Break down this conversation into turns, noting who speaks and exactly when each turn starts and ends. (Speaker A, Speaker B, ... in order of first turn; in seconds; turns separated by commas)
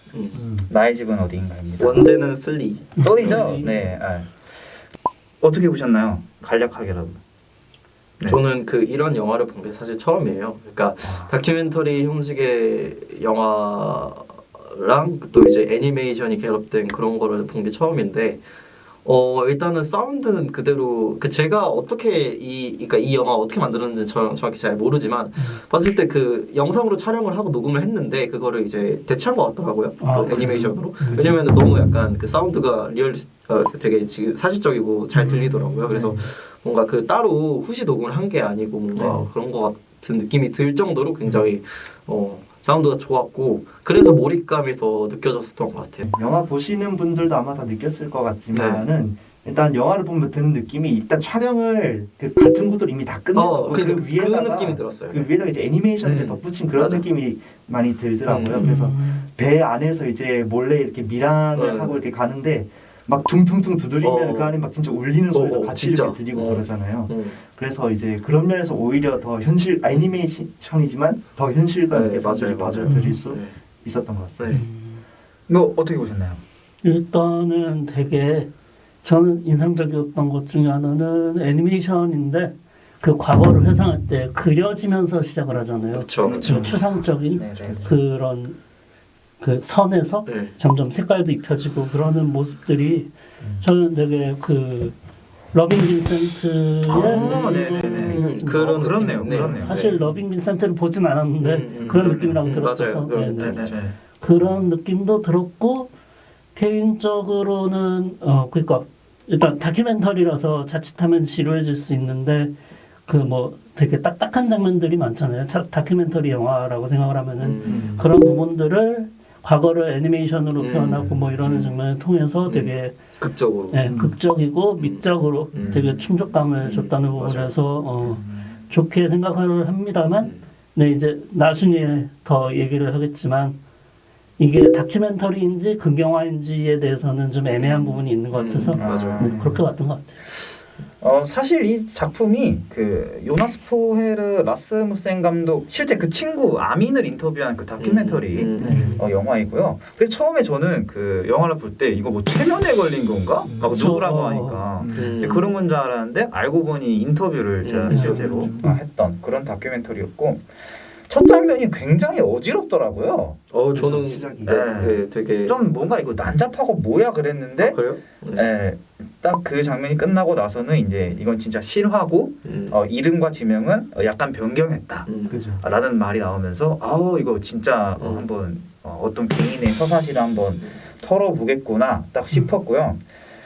Speaker A: 0.1-0.4, Speaker B: 0.3-0.7, Speaker C: 0.7-2.1, Speaker A: 1.8-3.6, Speaker D: 3.0-3.8, Speaker C: 3.0-4.4, Speaker C: 5.4-7.2, Speaker A: 8.3-18.4, Speaker C: 11.0-11.3, Speaker A: 19.1-46.1, Speaker D: 25.4-25.6, Speaker D: 30.0-31.4, Speaker D: 35.1-36.2, Speaker B: 38.9-39.3, Speaker B: 46.0-74.5, Speaker A: 48.5-48.9, Speaker A: 53.3-55.3, Speaker C: 56.0-56.4, Speaker A: 56.7-57.1, Speaker A: 58.2-58.7, Speaker D: 58.5-59.3, Speaker A: 61.5-62.0, Speaker A: 64.0-64.6, Speaker A: 65.3-67.4, Speaker A: 71.9-73.5, Speaker D: 72.9-73.2, Speaker A: 74.4-74.6, Speaker D: 74.5-75.0, Speaker C: 75.5-76.4, Speaker D: 76.8-78.5, Speaker D: 79.0-88.6, Speaker A: 85.9-86.8, Speaker B: 86.2-86.8, Speaker C: 87.3-87.9, Speaker B: 87.6-87.9, Speaker D: 89.4-95.0, Speaker A: 90.3-90.5, Speaker D: 95.5-105.9, Speaker A: 96.9-100.0, Speaker C: 96.9-100.2, Speaker A: 101.4-103.8, Speaker C: 101.9-102.5, Speaker C: 103.4-104.7, Speaker D: 106.5-112.5, Speaker D: 113.1-123.1, Speaker A: 117.4-117.9, Speaker B: 117.7-118.1, Speaker A: 120.6-121.7, Speaker A: 122.5-123.9, Speaker D: 123.7-133.6, Speaker B: 123.9-124.2, Speaker A: 124.8-126.1, Speaker C: 125.6-126.0, Speaker A: 126.6-127.6, Speaker C: 128.0-128.7, Speaker D: 134.4-140.3, Speaker A: 137.6-139.4, Speaker C: 138.8-139.5, Speaker B: 139.2-139.6, Speaker C: 141.0-160.5, Speaker A: 147.8-148.8, Speaker B: 148.6-149.0, Speaker D: 148.7-149.1, Speaker D: 153.7-154.7, Speaker B: 154.8-155.2, Speaker A: 154.9-155.7, Speaker A: 157.6-158.5, Speaker D: 157.9-158.8, Speaker B: 158.0-158.7, Speaker C: 161.1-163.4, Speaker A: 163.5-165.6, Speaker B: 163.7-164.7, Speaker C: 164.4-183.0, Speaker A: 167.6-168.5, Speaker A: 172.4-172.8, Speaker A: 175.1-175.4, Speaker B: 175.3-175.6, Speaker A: 178.0-178.3